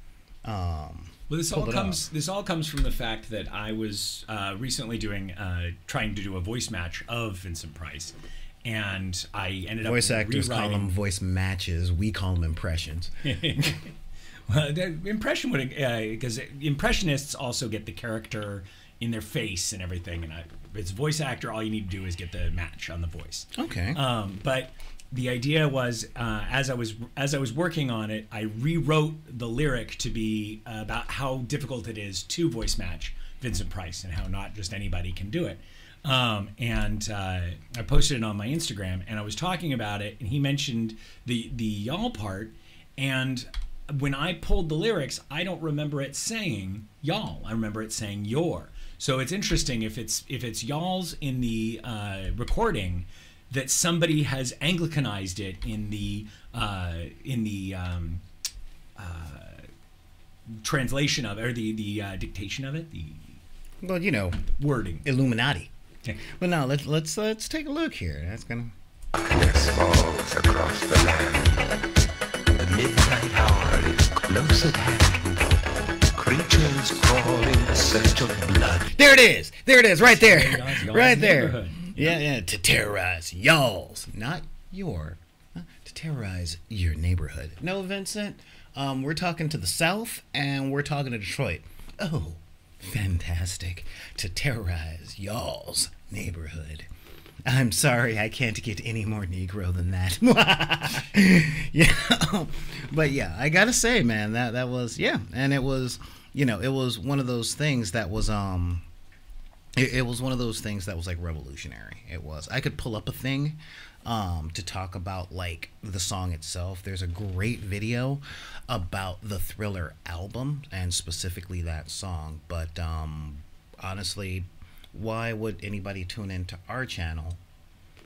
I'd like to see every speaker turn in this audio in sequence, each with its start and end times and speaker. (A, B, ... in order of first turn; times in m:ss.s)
0:00.4-0:02.1 A
0:01.3-0:10.9 B
0:09.8-0:13.3 A
0:13.2-0:13.9 B
0:14.5-0:58.2 B
0:23.6-0:24.0 A
0:59.0-0:59.7 B
1:00.6-1:03.4 B
1:03.8-1:04.4 A
1:04.6-1:05.0 B
1:05.0-1:05.7 A
1:06.3-1:08.7 A
1:09.2-1:11.7 C
1:12.5-1:18.9 C
1:18.9-1:36.9 A
1:20.2-1:22.2 B
1:37.4-1:48.8 A
1:49.8-2:07.4 A